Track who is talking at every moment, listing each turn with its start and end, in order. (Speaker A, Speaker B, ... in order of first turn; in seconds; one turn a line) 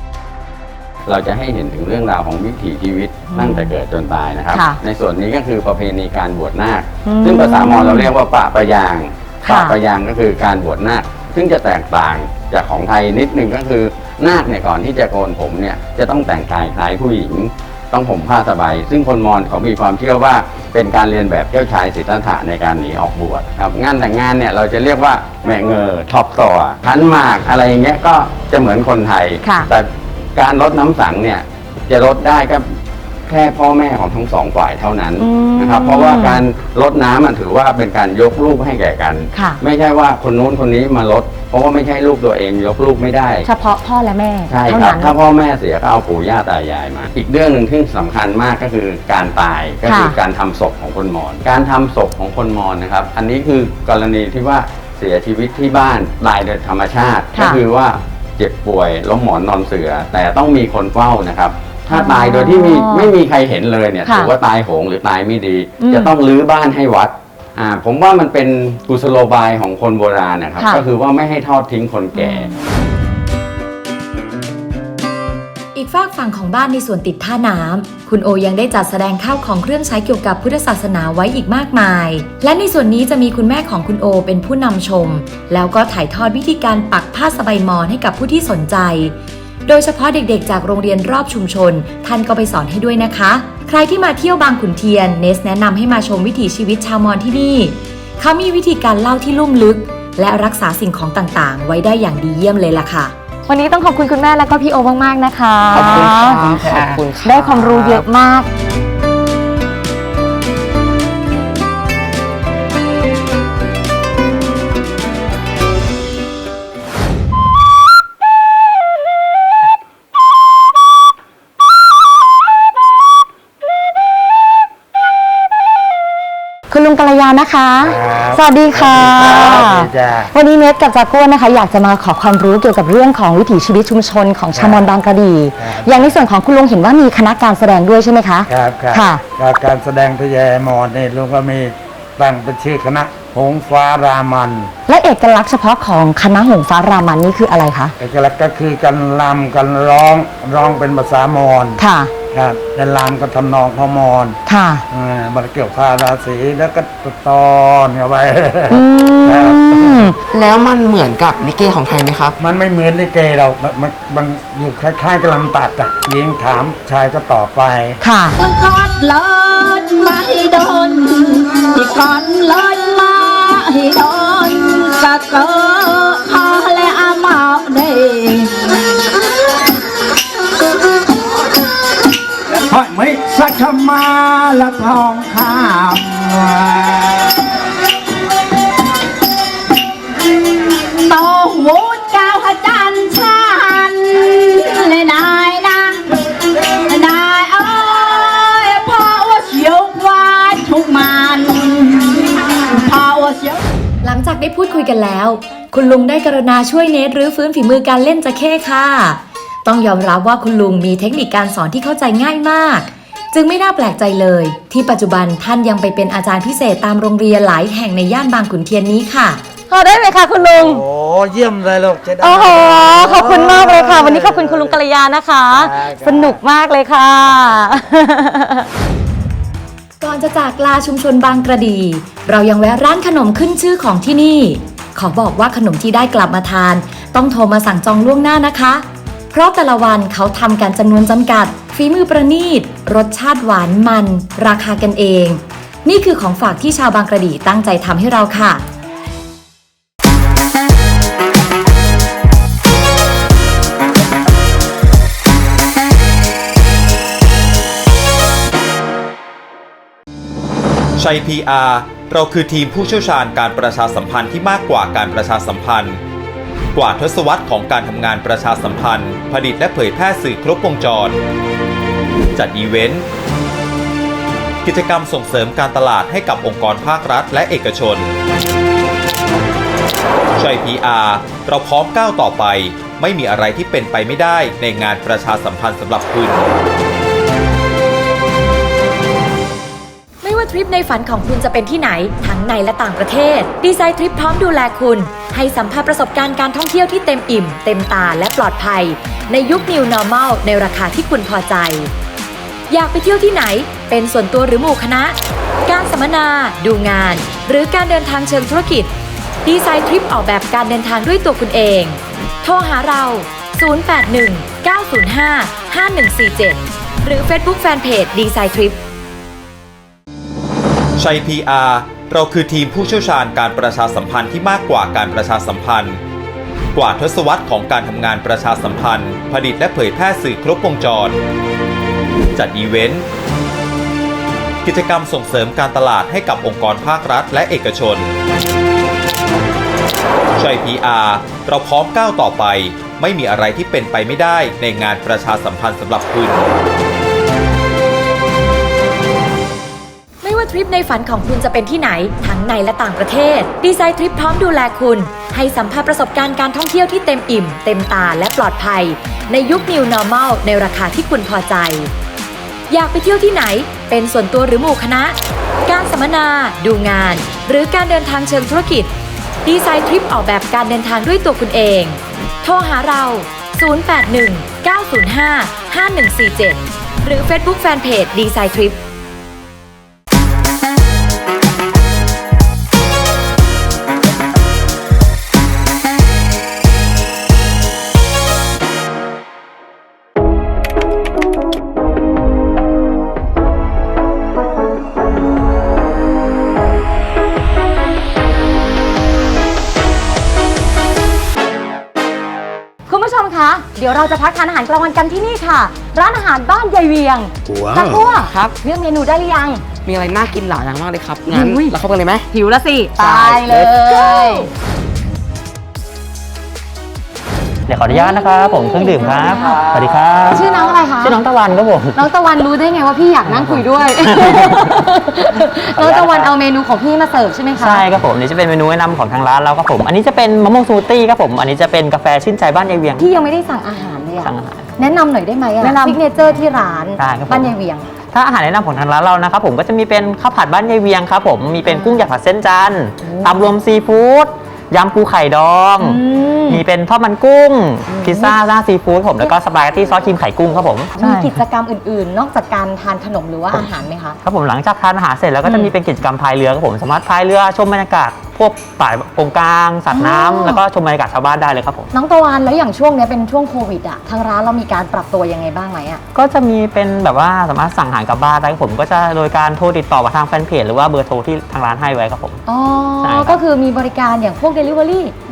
Speaker A: 1.1-43.5
Speaker B: 3.3-3.7
Speaker B: 4.5-4.8
Speaker B: 7.0-8.1
Speaker B: 9.4-9.8
Speaker B: 29.4-29.7
Speaker B: 35.2-36.4
Speaker B: 39.3-39.6
Speaker B: 43.4-45.1
Speaker A: 44.5-72.5
Speaker B: 49.8-50.2
Speaker B: 57.3-57.6
Speaker B: 61.9-63.1
Speaker B: 64.0-64.3
Speaker B: 65.8-66.1
Speaker B: 72.2-72.5
Speaker C: 75.7-103.1
Speaker B: 103.5-108.5
Speaker D: 105.7-108.0
Speaker B: 126.7-139.2
Speaker E: 127.8-130.3
Speaker E: 134.5-134.9
Speaker E: 135.6-136.1
Speaker E: 138.5-144.7
Speaker B: 144.9-147.9
Speaker E: 148.0-151.8
Speaker B: 151.8-152.1
Speaker E: 152.3-154.4
Speaker B: 154.4-154.8
Speaker E: 154.9-160.1
Speaker B: 158.7-160.2
Speaker D: 160.3-162.4
Speaker E: 162.4-168.0
Speaker B: 168.0-168.4
Speaker F: 168.4-178.7
Speaker E: 182.7-187.3
Speaker F: 191.0-196.1
Speaker F: 196.9-203.6
Speaker C: 204.0-219.4
Speaker B: 219.7-220.8
Speaker E: 220.6-224.8
Speaker B: 222.2-228.7
Speaker E: 225.5-226.4
Speaker C: 230.0-248.7
Speaker G: 261.0-266.0
Speaker G: 266.7-271.2
Speaker G: 272.3-273.1
Speaker G: 274.6-278.1
Speaker G: 280.4-286.5
Speaker C: 290.2-301.9
Speaker C: 302.7-308.9
Speaker C: 309.4-318.8
Speaker G: 321.0-326.0
Speaker G: 326.7-331.2
Speaker G: 332.3-333.1
Speaker G: 334.6-338.1
Speaker G: 340.4-346.5
Speaker C: 350.2-361.9
Speaker C: 362.7-368.9
Speaker C: 369.4-378.8
Speaker B: 402.9-409.6
Speaker D: 407.5-408.6
Speaker D: 409.8-412.2
Speaker B: 411.3-411.8
Speaker B: 412.3-414.5
Speaker D: 413.0-414.2
Speaker H: 417.7-422.0
Speaker B: 417.9-419.7
Speaker B: 420.3-421.2
Speaker B: 421.9-427.8
Speaker H: 423.3-424.6
Speaker H: 425.8-426.3
Speaker H: 427.6-433.1
Speaker B: 433.0-437.9
Speaker H: 434.2-434.6
Speaker H: 435.6-436.0
Speaker H: 437.0-437.5
Speaker H: 438.1-451.4
Speaker B: 441.6-442.1
Speaker B: 443.0-443.5
Speaker B: 445.8-446.6
Speaker B: 447.9-448.3
Speaker B: 450.9-454.2
Speaker H: 454.2-461.9
Speaker B: 459.9-460.6
Speaker B: 461.9-466.0
Speaker H: 466.1-472.4
Speaker B: 472.5-475.1
Speaker H: 473.0-473.4